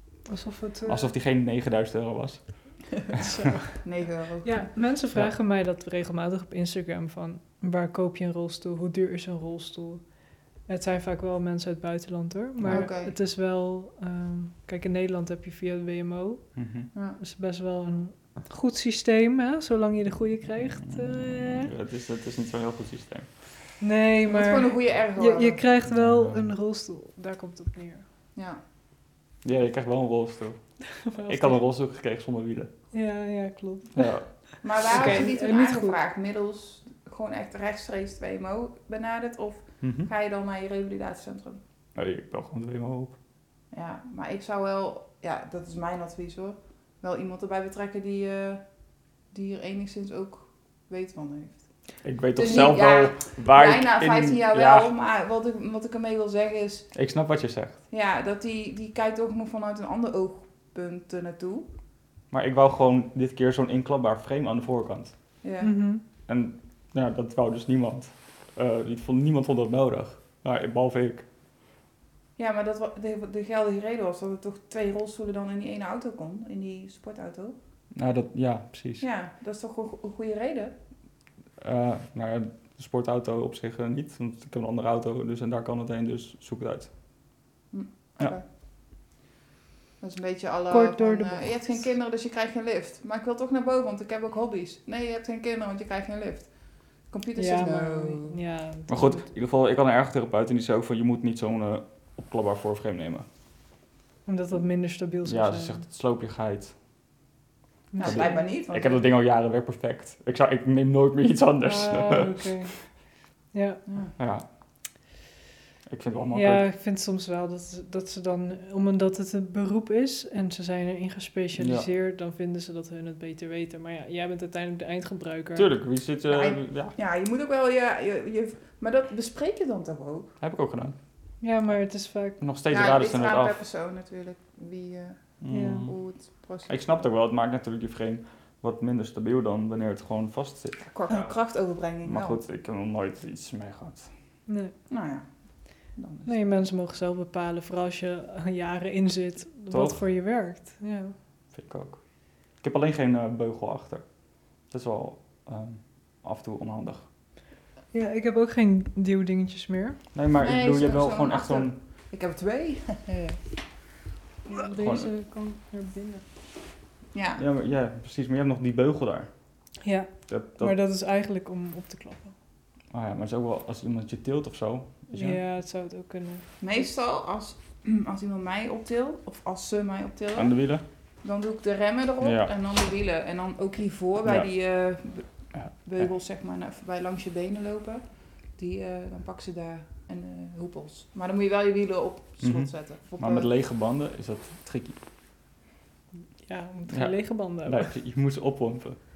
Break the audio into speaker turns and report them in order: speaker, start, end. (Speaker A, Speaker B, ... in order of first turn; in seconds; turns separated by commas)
Speaker A: 0.3-1.0, Speaker B: 0.8-3.3, Speaker A: 3.2-3.9, Speaker C: 3.8-4.7, Speaker A: 4.4-16.6, Speaker B: 12.6-12.9, Speaker C: 12.7-13.1, Speaker B: 16.6-16.9, Speaker A: 17.2-21.7, Speaker B: 20.8-23.3, Speaker A: 23.8-28.0, Speaker C: 24.2-25.6, Speaker B: 25.9-26.5, Speaker B: 29.4-32.7, Speaker A: 30.9-31.6, Speaker A: 32.9-36.0, Speaker B: 34.0-34.3, Speaker C: 34.6-41.6, Speaker B: 39.8-40.1, Speaker B: 41.9-43.1, Speaker C: 43.7-48.6, Speaker C: 49.3-51.6, Speaker B: 52.0-54.9, Speaker C: 52.4-56.9, Speaker B: 56.9-57.8, Speaker C: 57.9-61.7, Speaker B: 62.3-65.2, Speaker C: 65.4-65.7, Speaker A: 65.6-66.0, Speaker B: 66.3-71.2, Speaker C: 72.4-77.5, Speaker B: 77.9-79.0, Speaker C: 79.0-80.7, Speaker B: 81.6-86.9, Speaker C: 87.7-88.4, Speaker C: 90.0-96.5, Speaker A: 90.7-91.8, Speaker C: 97.1-98.4, Speaker A: 97.3-99.2, Speaker B: 98.9-103.2, Speaker A: 104.2-105.8, Speaker B: 105.2-106.7, Speaker A: 107.9-108.4, Speaker C: 108.0-109.0, Speaker B: 108.0-112.3, Speaker A: 111.6-112.9, Speaker A: 113.5-113.8, Speaker C: 113.9-114.1, Speaker B: 114.2-114.5, Speaker B: 115.9-116.7, Speaker A: 116.3-125.7, Speaker B: 121.6-121.9, Speaker B: 125.5-127.0, Speaker C: 126.2-130.3, Speaker B: 130.4-130.9, Speaker A: 131.4-132.4, Speaker B: 132.4-133.6, Speaker C: 132.7-137.0, Speaker B: 135.4-135.9, Speaker A: 135.5-135.9, Speaker B: 136.7-141.3, Speaker C: 140.9-142.4, Speaker B: 142.0-144.1, Speaker A: 144.5-144.7, Speaker C: 144.9-145.3, Speaker C: 145.9-146.3, Speaker A: 146.2-151.1, Speaker B: 149.7-150.0, Speaker B: 151.5-152.0, Speaker B: 152.6-154.1, Speaker B: 154.6-157.1, Speaker A: 157.9-160.1, Speaker B: 160.1-161.8, Speaker C: 160.3-163.4, Speaker A: 164.5-166.2, Speaker B: 164.8-165.1, Speaker C: 167.1-167.4, Speaker B: 167.4-169.3, Speaker A: 169.8-172.3, Speaker B: 170.3-170.8, Speaker B: 172.9-175.4, Speaker A: 175.1-176.7, Speaker C: 176.6-180.5, Speaker B: 180.3-180.8, Speaker C: 181.2-185.3, Speaker B: 182.2-182.5, Speaker B: 185.5-186.1, Speaker C: 185.8-193.5, Speaker B: 192.4-195.0, Speaker A: 196.4-197.9, Speaker B: 196.9-199.0